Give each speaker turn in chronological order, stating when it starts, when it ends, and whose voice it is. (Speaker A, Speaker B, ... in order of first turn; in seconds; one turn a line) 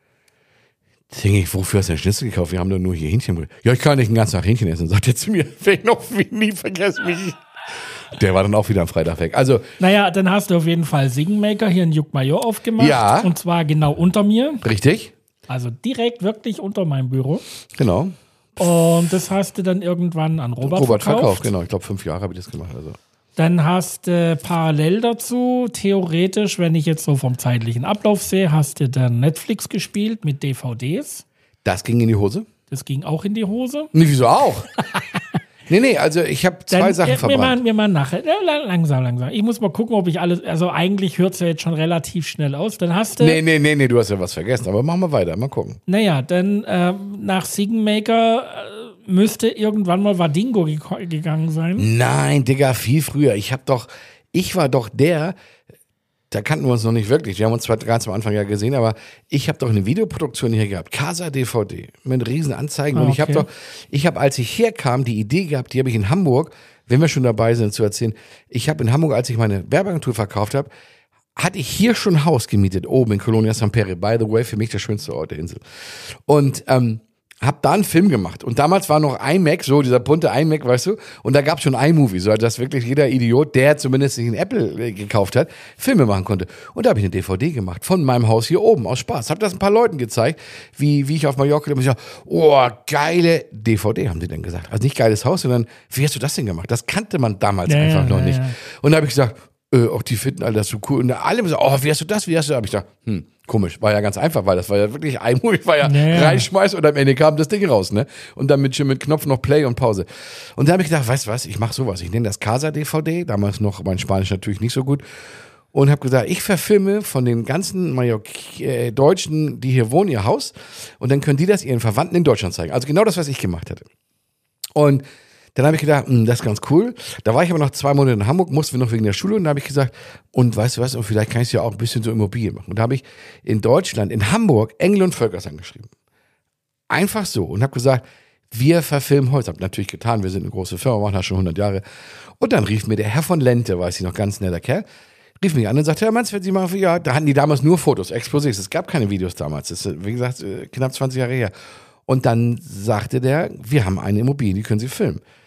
Speaker A: 1.1-9.7
Speaker B: 9.8-14.6
Speaker A: 12.8-13.3
Speaker A: 14.6-15.1
Speaker B: 15.5-17.4
Speaker A: 17.7-18.1
Speaker B: 18.6-21.5
Speaker A: 20.6-23.0
Speaker B: 23.4-31.2
Speaker A: 31.6-32.5
Speaker B: 32.7-33.9
Speaker A: 33.9-34.7
Speaker A: 35.7-37.6
Speaker B: 36.7-43.4
Speaker A: 43.2-45.8
Speaker B: 45.9-51.9
Speaker A: 51.8-55.3
Speaker A: 56.3-70.7
Speaker B: 62.9-63.5
Speaker A: 71.3-115.0
Speaker B: 97.7-98.6
Speaker B: 105.8-106.5
Speaker A: 115.7-123.9
Speaker A: 124.8-135.9
Speaker A: 136.9-141.8
Speaker A: 142.4-144.8
Speaker A: 145.4-151.5
Speaker A: 152.1-155.2